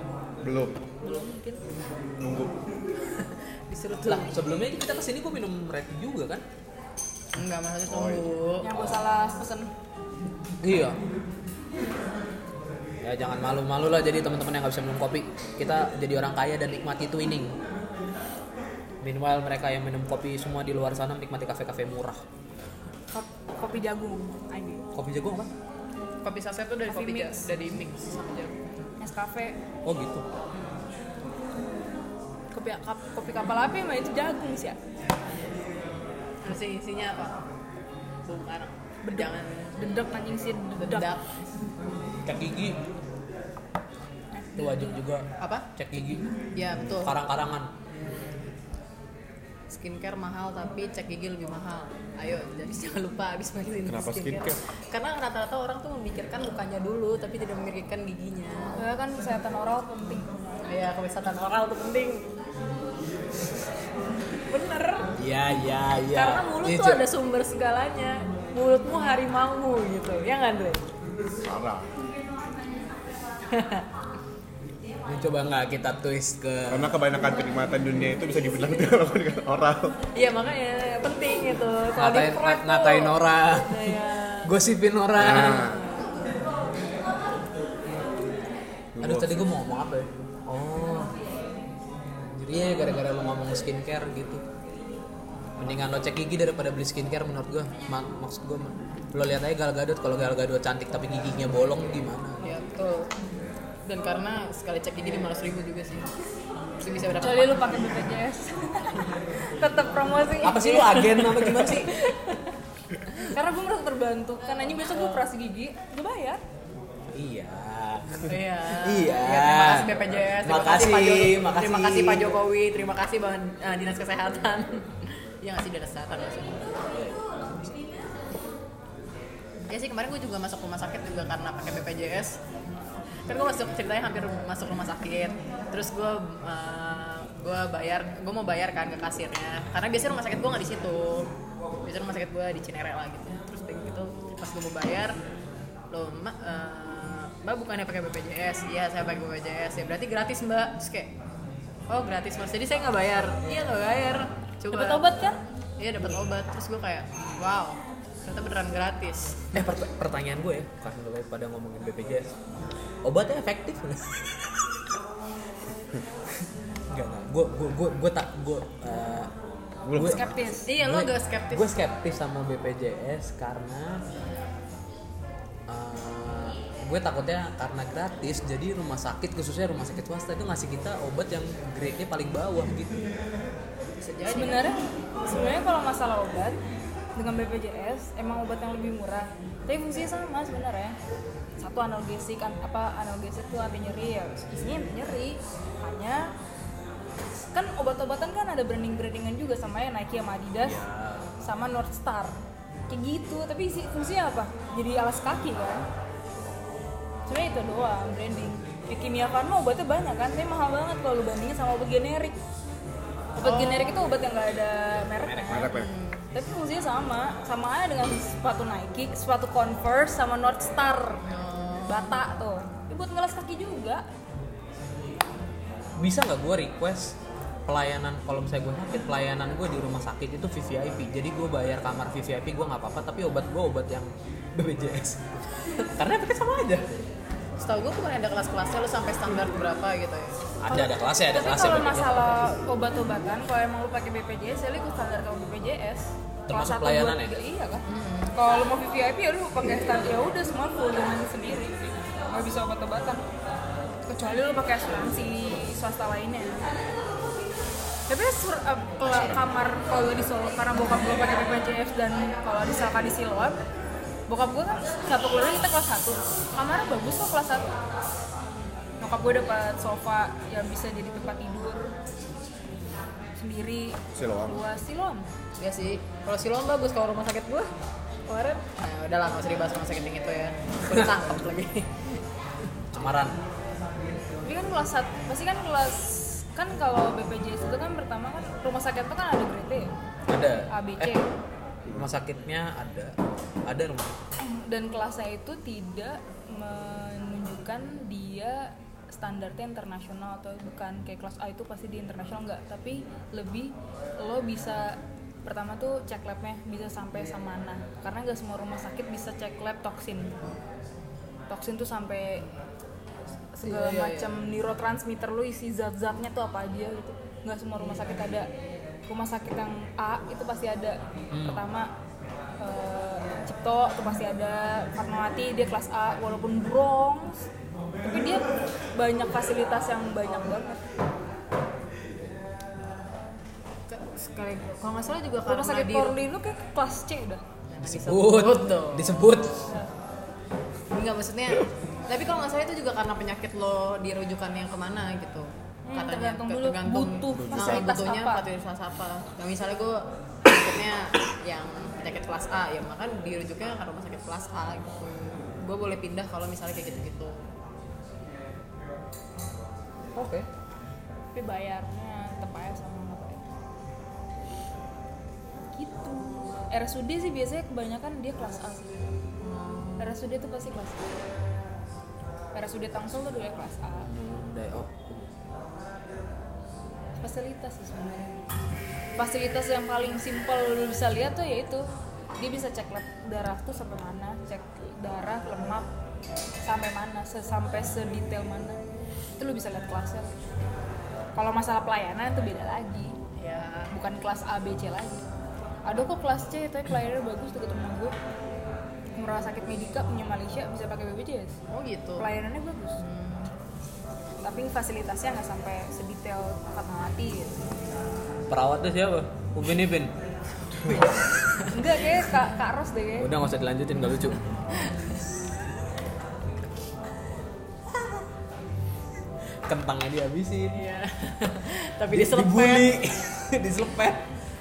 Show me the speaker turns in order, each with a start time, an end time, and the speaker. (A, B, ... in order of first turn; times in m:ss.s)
0:00.4-0:00.8 A
0:01.0-0:01.6 B
0:02.2-0:02.6 A
0:03.2-0:04.3 C
0:04.1-0:06.4 D
0:07.3-0:08.7 C
0:07.9-0:08.3 A
0:08.6-0:09.7 B
0:08.7-0:09.0 D
0:10.6-0:11.0 D
0:13.0-0:17.5 D
0:19.0-0:22.2 D
0:23.1-0:24.8 B
0:24.9-0:25.5 D
0:26.2-0:28.7 C
0:26.9-0:27.5 B
0:29.0-0:29.6 B
0:29.8-0:30.2 D
0:32.5-0:34.8 B
0:36.4-0:37.4 C
0:38.2-0:39.9 C
0:39.0-0:41.1 B
0:40.8-0:41.3 C
0:42.2-0:42.8 D
0:44.3-0:45.0 B
0:44.6-0:47.7 D
0:45.4-0:45.7 C
0:46.5-0:47.1 C
0:49.7-0:58.8 C
0:53.8-0:54.6 A
0:58.8-1:00.6 B
1:00.6-1:02.3 C
1:04.4-1:05.1 C
1:05.2-1:07.0 D
1:06.1-1:10.8 C
1:11.4-1:11.9 A
1:13.5-1:13.8 C
1:15.0-1:17.0 D
1:16.7-1:20.0 A
1:20.1-1:24.5 C
1:22.0-1:25.8 D
1:25.2-1:25.8 A
1:25.2-1:26.1 C
1:28.9-1:29.5 A
1:29.0-1:31.2 D
1:32.3-1:34.4 D
1:35.6-1:42.4 D
1:42.4-1:43.1 C
1:43.8-1:46.1 C
1:46.8-1:47.8 C
1:47.2-1:51.3 B
1:50.4-1:51.9 D
1:51.5-1:52.4 C
1:53.2-1:56.4 B
1:54.6-1:55.3 C
1:57.1-2:02.3 D
1:58.2-2:06.8 C
2:06.9-2:07.7 D
2:09.7-2:12.4 C
2:13.2-2:21.3 C
2:21.8-2:25.2 C
2:25.9-2:31.1 C
2:31.9-2:35.1 C
2:34.7-2:35.4 B
2:35.8-2:39.5 C
2:39.5-2:42.3 D
2:43.0-2:44.5 D
2:46.9-2:49.3 D
2:49.8-2:50.5 A
2:49.9-2:54.0 D
2:50.0-2:50.7 B
2:50.6-2:51.7 C
2:55.7-3:03.1 D
3:04.0-3:04.6 C
3:04.3-3:06.6 B
3:07.2-3:11.0 B
3:11.6-3:16.3 B
3:17.5-3:20.8 B
3:20.6-3:21.3 D
3:21.4-3:22.4 B
3:22.9-3:25.9 B
3:27.3-3:32.4 B
3:33.4-3:35.8 B
3:33.4-3:34.0 C
3:35.1-3:35.7 D
3:35.5-3:35.9 A
3:35.7-3:36.2 C
3:36.3-3:41.2 B
3:41.3-3:42.2 C
3:41.9-3:44.0 B
3:46.0-3:47.2 D
3:47.7-3:56.9 D
3:57.6-4:00.4 C
4:00.6-4:02.3 D
4:00.7-4:13.2 B
4:06.5-4:07.3 D
4:07.9-4:08.3 C
4:14.1-4:16.7 B
4:18.1-4:23.6 B
4:19.0-4:19.4 D
4:24.3-4:27.8 B
4:29.0-4:31.9 B
4:33.4-4:35.3 B
4:34.1-4:34.6 A
4:35.6-4:37.7 C
4:38.3-4:38.6 B
4:38.7-4:42.1 C
4:42.9-4:43.4 D
4:44.4-4:49.9 B
4:50.3-4:51.2 D
4:50.7-4:51.3 B
4:51.9-4:53.1 D
4:53.6-4:54.2 D
4:54.4-5:10.3 B
5:11.5-5:12.4 B
5:13.5-5:18.5 B
5:13.6-5:14.4 C
5:19.1-5:21.9 B
5:21.3-5:21.6 D
5:22.6-5:27.5 B
5:28.0-5:30.8 B
5:33.9-5:36.2 C
5:35.4-5:37.4 B
5:37.7-5:39.3 C
5:37.8-5:39.7 D
5:40.9-5:57.4 C
5:45.8-5:48.4 B
5:47.3-5:47.9 A
6:00.1-6:00.5 D
6:01.3-6:03.4 B
6:05.8-6:09.1 B
6:09.4-6:10.1 C
6:10.0-6:11.1 B
6:12.5-6:14.1 B
6:14.0-6:15.4 D
6:17.2-6:18.4 B
6:19.2-6:25.9 B
6:26.6-6:28.8 B
6:29.4-6:30.3 B
6:31.3-6:33.2 B
6:33.4-6:33.9 C
6:33.9-6:35.2 B
6:35.8-6:38.1 B
6:39.2-6:41.6 B
6:41.7-6:42.3 C
6:42.2-6:43.0 B
6:43.0-6:43.5 C
6:44.4-6:47.8 B
6:48.5-6:50.1 D
6:50.8-6:51.1 D
6:51.7-6:53.3 B
6:53.2-6:54.4 D
6:57.9-6:58.2 D
6:59.7-7:00.8 D
7:00.7-7:03.3 C
7:02.1-7:04.2 D